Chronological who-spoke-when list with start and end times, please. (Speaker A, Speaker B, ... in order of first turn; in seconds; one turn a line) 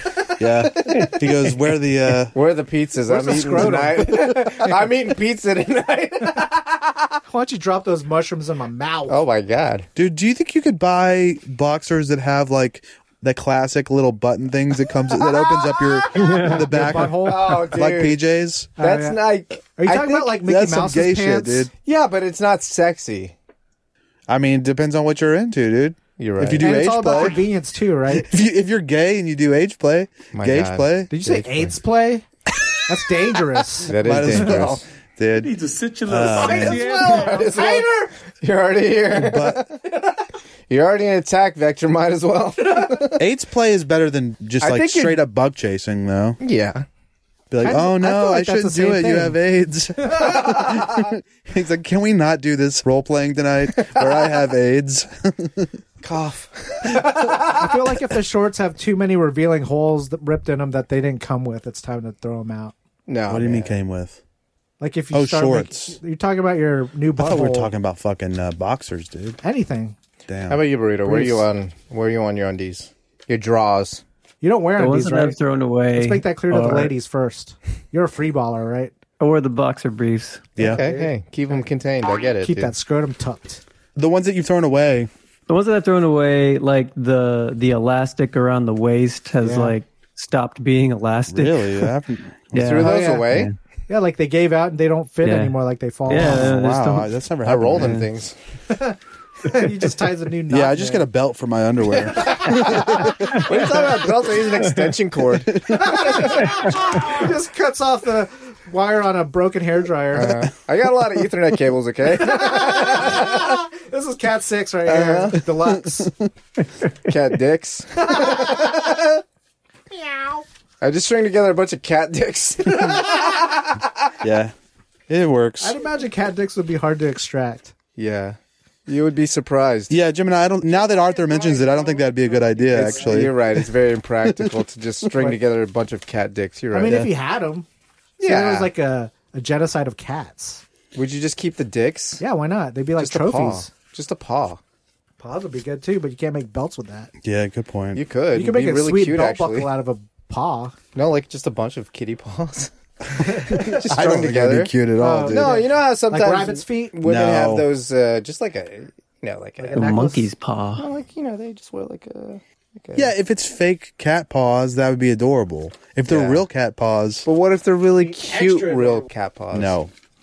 Speaker A: 0.4-2.4
Speaker B: 0.6-1.2
Speaker B: 2.3-7.1
Speaker C: 3.1-4.3
Speaker C: 7.3-9.2
Speaker B: 9.1-9.9
Speaker A: 9.9-18.8
Speaker B: 15.1-16.5
Speaker C: 16.5-17.7
Speaker B: 17.2-18.2
Speaker C: 18.8-19.2
Speaker B: 18.8-20.4
Speaker C: 19.8-21.7
Speaker A: 20.4-21.7
Speaker B: 21.8-23.3
Speaker A: 24.3-27.4
Speaker B: 26.2-26.8
Speaker C: 26.6-28.3
Speaker A: 28.1-31.1
Speaker B: 30.3-31.7
Speaker C: 31.1-32.2
Speaker C: 32.9-34.0
Speaker B: 33.8-34.8
Speaker A: 33.9-35.5
Speaker D: 35.3-37.5
Speaker A: 36.0-37.0
Speaker C: 36.3-38.1
Speaker B: 36.5-39.8
Speaker A: 39.1-39.7
Speaker B: 40.7-43.2
Speaker A: 43.2-46.4
Speaker B: 44.6-45.2
Speaker B: 46.4-46.9
Speaker A: 47.5-55.7
Speaker C: 47.6-49.4
Speaker C: 50.0-50.4
Speaker B: 53.7-54.4
Speaker B: 56.0-57.7
Speaker C: 56.9-62.7
Speaker B: 63.1-63.8
Speaker A: 63.3-64.2
Speaker C: 64.8-67.7
Speaker A: 65.1-66.0
Speaker A: 67.2-69.4
Speaker C: 69.4-70.0
Speaker A: 70.3-70.6
Speaker B: 70.5-74.0
Speaker C: 74.4-75.4
Speaker E: 74.8-76.9
Speaker C: 75.9-78.9
Speaker E: 79.2-80.5
Speaker A: 80.6-80.8
Speaker B: 80.6-82.7
Speaker C: 80.6-81.6
Speaker C: 82.4-83.6
Speaker A: 84.0-85.1
Speaker E: 85.5-91.9
Speaker C: 89.4-89.7
Speaker A: 91.3-92.7
Speaker E: 92.5-93.5
Speaker B: 92.5-93.5
Speaker C: 92.8-93.3
Speaker C: 93.9-96.5
Speaker E: 95.2-95.5
Speaker E: 96.1-97.1
Speaker A: 96.1-98.0
Speaker B: 97.4-98.3
Speaker E: 97.7-98.0
Speaker C: 98.7-101.1
Speaker A: 100.5-103.5
Speaker B: 102.2-105.6
Speaker C: 102.2-102.8
Speaker A: 105.5-106.2
Speaker C: 105.7-110.4
Speaker B: 110.1-113.5
Speaker C: 112.2-116.1
Speaker B: 114.8-115.4
Speaker A: 115.6-116.3
Speaker B: 117.0-119.2
Speaker C: 118.0-118.9
Speaker C: 120.0-120.4
Speaker B: 120.8-124.1
Speaker A: 124.2-124.5
Speaker A: 125.1-125.8
Speaker C: 125.6-127.7
Speaker B: 128.0-129.9
Speaker A: 129.9-133.7
Speaker C: 130.9-133.2
Speaker B: 132.7-137.1
Speaker C: 136.7-137.7
Speaker B: 138.2-138.7
Speaker C: 138.2-140.6
Speaker B: 140.9-142.2
Speaker C: 142.2-143.7
Speaker B: 143.0-144.6
Speaker C: 145.2-147.1
Speaker A: 147.2-148.0
Speaker B: 147.9-149.7
Speaker C: 148.3-150.8
Speaker B: 150.9-152.7
Speaker C: 153.2-153.9
Speaker A: 153.6-155.6
Speaker B: 153.6-159.9
Speaker C: 155.0-157.0
Speaker A: 157.0-157.7
Speaker C: 159.6-160.3
Speaker E: 159.7-160.9
Speaker B: 160.8-163.1
Speaker A: 162.9-167.2
Speaker B: 166.1-166.4
Speaker B: 167.2-169.8
Speaker C: 168.0-169.1
Speaker A: 169.5-169.9